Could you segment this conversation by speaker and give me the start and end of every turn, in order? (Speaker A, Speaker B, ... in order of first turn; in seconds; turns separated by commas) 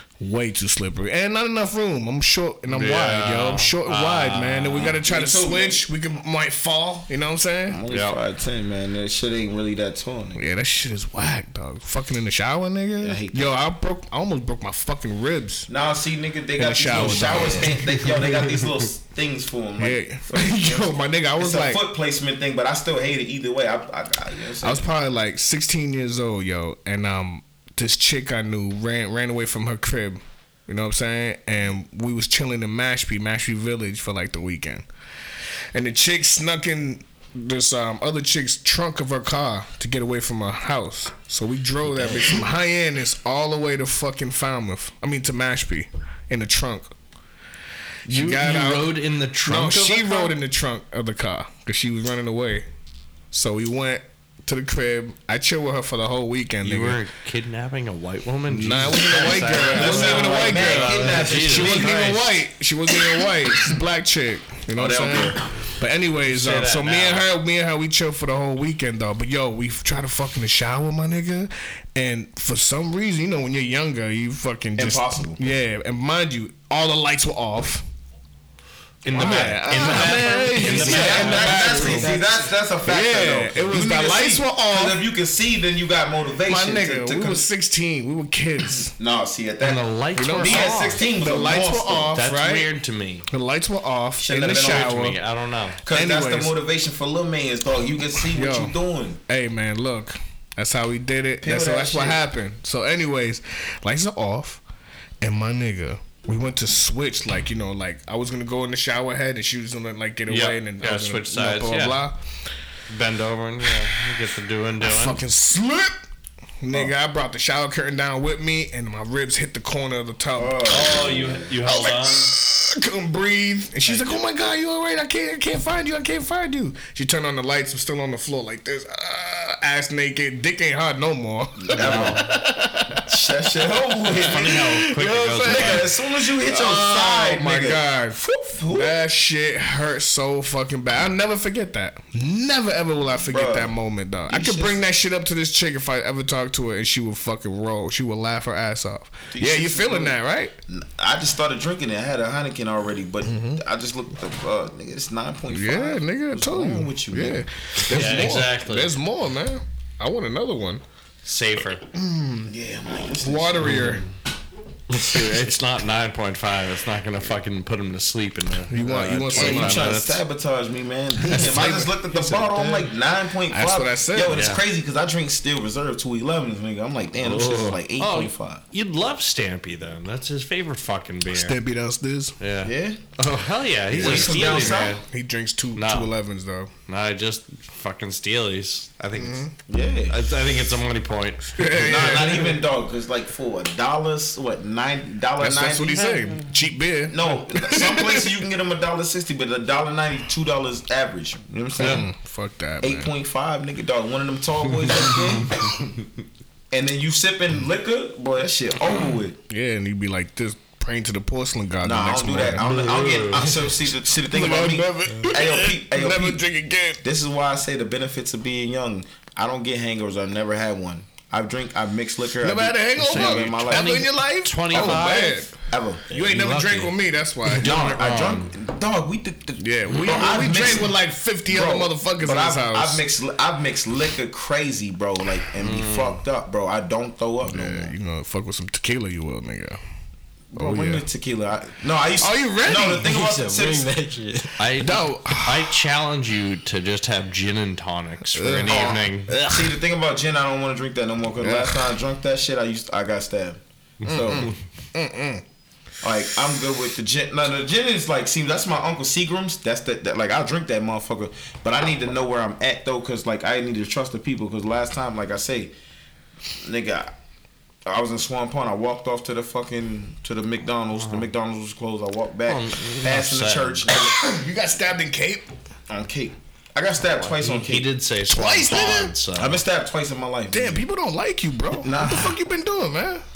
Speaker A: 0.2-7.8, Speaker B: 2.7-5.0, Speaker C: 4.8-5.8, Speaker C: 7.7-10.4, Speaker B: 7.9-8.2, Speaker A: 10.3-15.7, Speaker C: 13.0-13.5, Speaker C: 15.7-24.9, Speaker A: 16.6-18.1, Speaker D: 17.0-17.8, Speaker A: 19.8-21.8, Speaker A: 24.6-34.8, Speaker A: 35.7-46.9, Speaker D: 41.9-42.4, Speaker A: 48.0-52.6, Speaker B: 48.1-50.3, Speaker A: 53.3-57.0, Speaker B: 56.6-62.4, Speaker A: 58.5-77.8, Speaker C: 59.2-62.2, Speaker C: 64.8-65.4, Speaker B: 66.3-67.2, Speaker C: 74.8-75.4, Speaker B: 79.0-82.2, Speaker C: 79.1-87.4, Speaker A: 79.1-82.2, Speaker D: 80.6-82.3, Speaker A: 82.8-85.0, Speaker A: 86.5-88.9, Speaker C: 88.7-92.2, Speaker B: 89.6-91.0, Speaker A: 90.1-92.7, Speaker B: 92.1-93.2, Speaker A: 93.3-95.2, Speaker C: 94.2-95.0, Speaker B: 94.5-95.8, Speaker C: 95.8-99.2, Speaker A: 95.8-96.5, Speaker A: 98.2-98.7, Speaker A: 99.3-104.6, Speaker C: 101.4-102.2, Speaker A: 105.2-112.2, Speaker B: 110.3-112.0, Speaker B: 112.9-115.2, Speaker A: 113.6-114.1, Speaker A: 114.8-116.0, Speaker A: 116.6-133.1, Speaker C: 120.4-121.5, Speaker B: 120.7-122.3, Speaker B: 123.9-124.2, Speaker C: 131.6-132.3, Speaker B: 131.7-132.3, Speaker C: 133.0-138.9, Speaker A: 134.0-138.2, Speaker B: 134.2-135.8, Speaker A: 138.7-150.5, Speaker C: 143.3-143.7, Speaker C: 144.3-144.8, Speaker C: 149.3-150.2, Speaker C: 150.7-157.4, Speaker A: 153.2-153.6, Speaker A: 155.5-160.8, Speaker B: 157.8-158.9, Speaker B: 161.2-161.8, Speaker A: 161.9-162.5, Speaker C: 162.4-164.0, Speaker A: 163.2-164.0, Speaker B: 163.6-164.1, Speaker B: 164.9-170.2, Speaker A: 168.7-170.0, Speaker C: 169.3-178.6, Speaker A: 171.2-172.9, Speaker A: 173.5-174.5, Speaker B: 174.3-174.6, Speaker B: 177.2-181.6, Speaker A: 181.3-182.3, Speaker B: 182.4-185.0, Speaker C: 182.6-183.0, Speaker A: 183.9-186.7, Speaker C: 183.9-185.0, Speaker B: 185.7-186.1, Speaker B: 186.9-189.5, Speaker A: 189.2-189.5, Speaker C: 189.7-190.2, Speaker B: 190.1-192.6, Speaker A: 191.6-192.6, Speaker C: 191.7-196.1, Speaker A: 195.4-198.4, Speaker B: 196.0-196.4, Speaker C: 197.1-202.1, Speaker A: 201.8-203.1, Speaker B: 201.8-202.0, Speaker C: 202.8-205.7, Speaker B: 204.9-205.9, Speaker C: 206.7-209.4, Speaker A: 209.5-212.7, Speaker C: 211.8-216.4, Speaker B: 212.6-213.5, Speaker A: 214.3-217.0, Speaker C: 217.0-224.1, Speaker A: 222.4-225.5, Speaker B: 223.0-225.5, Speaker C: 224.7-226.1, Speaker D: 226.1-226.9, Speaker A: 226.1-227.8, Speaker B: 227.5-228.5, Speaker C: 227.6-237.9, Speaker A: 229.6-233.0, Speaker B: 229.9-230.3, Speaker B: 235.6-236.2, Speaker A: 237.4-239.8, Speaker C: 240.5-243.9, Speaker A: 240.6-241.0, Speaker A: 242.2-243.1, Speaker D: 243.0-244.6, Speaker B: 244.6-249.3, Speaker A: 244.8-245.8, Speaker A: 248.3-249.7, Speaker C: 248.7-254.5, Speaker A: 251.4-252.0, Speaker A: 254.0-255.4, Speaker C: 256.0-265.7, Speaker C: 266.6-267.1, Speaker C: 267.9-274.1, Speaker B: 270.9-271.3, Speaker B: 272.5-273.8, Speaker A: 273.9-275.5, Speaker C: 275.9-277.9, Speaker B: 277.2-279.6, Speaker A: 278.3-279.1, Speaker C: 279.4-280.8, Speaker A: 280.5-283.2, Speaker C: 281.8-282.4